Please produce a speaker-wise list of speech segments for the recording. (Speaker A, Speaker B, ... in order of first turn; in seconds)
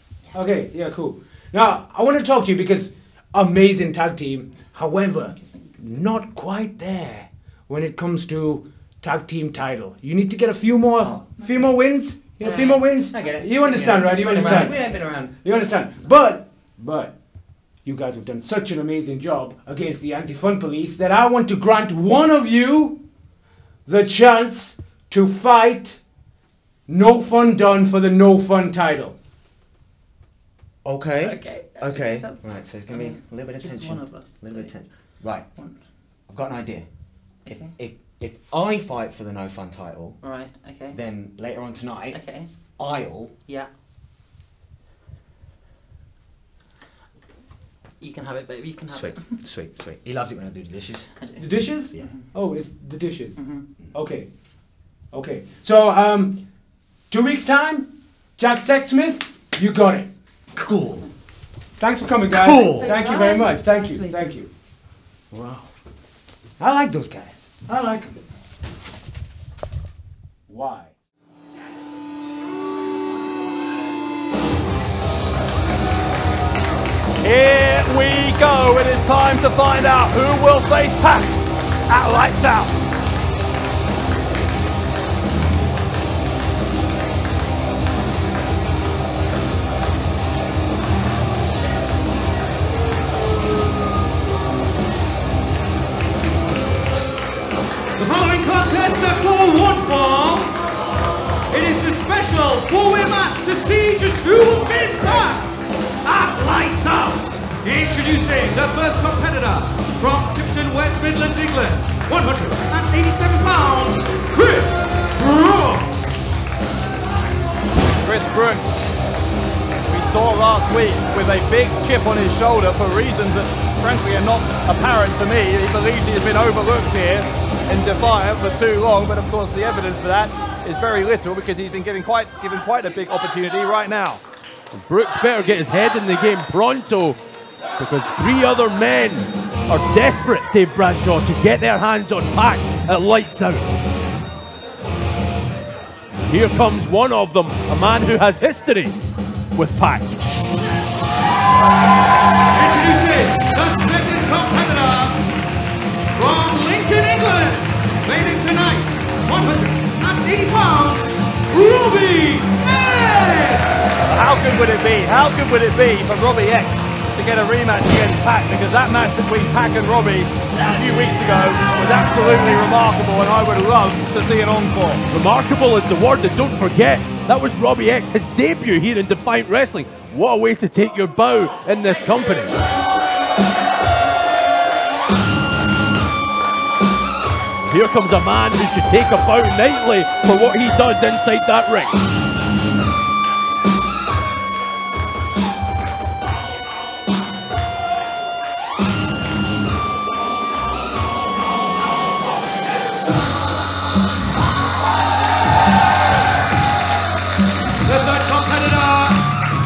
Speaker A: 0.3-17.1, 17.8-23.0, 23.9-26.0, 26.9-29.1, 51.4-53.4, 53.9-54.3, 55.1-56.4, 57.1-60.1, 61.8-64.5, 66.6-68.2, 70.5-70.9
Speaker B: 11.0-11.6, 12.4-15.5, 30.8-35.5, 36.3-36.9, 37.4-40.2, 40.9-42.2, 42.8-43.3, 48.9-51.1, 60.5-61.0, 62.3-63.0, 65.3-65.7
Speaker C: 12.5-12.8, 14.3-14.8, 31.2-34.7, 37.5-37.7, 40.2-41.0, 42.1-42.5, 43.5-43.7, 48.0-49.4, 51.2-52.3, 53.4-53.7, 60.6-61.1, 62.4-64.4
Speaker D: 77.2-82.8, 118.0-118.8, 119.9-134.2, 164.0-175.0
Speaker E: 98.0-100.5, 101.5-116.4, 152.5-155.2, 156.1-164.0, 207.8-209.2
Speaker F: 134.7-137.2, 137.8-143.7, 146.3-149.0, 149.5-150.2, 175.1-182.6, 187.7-192.0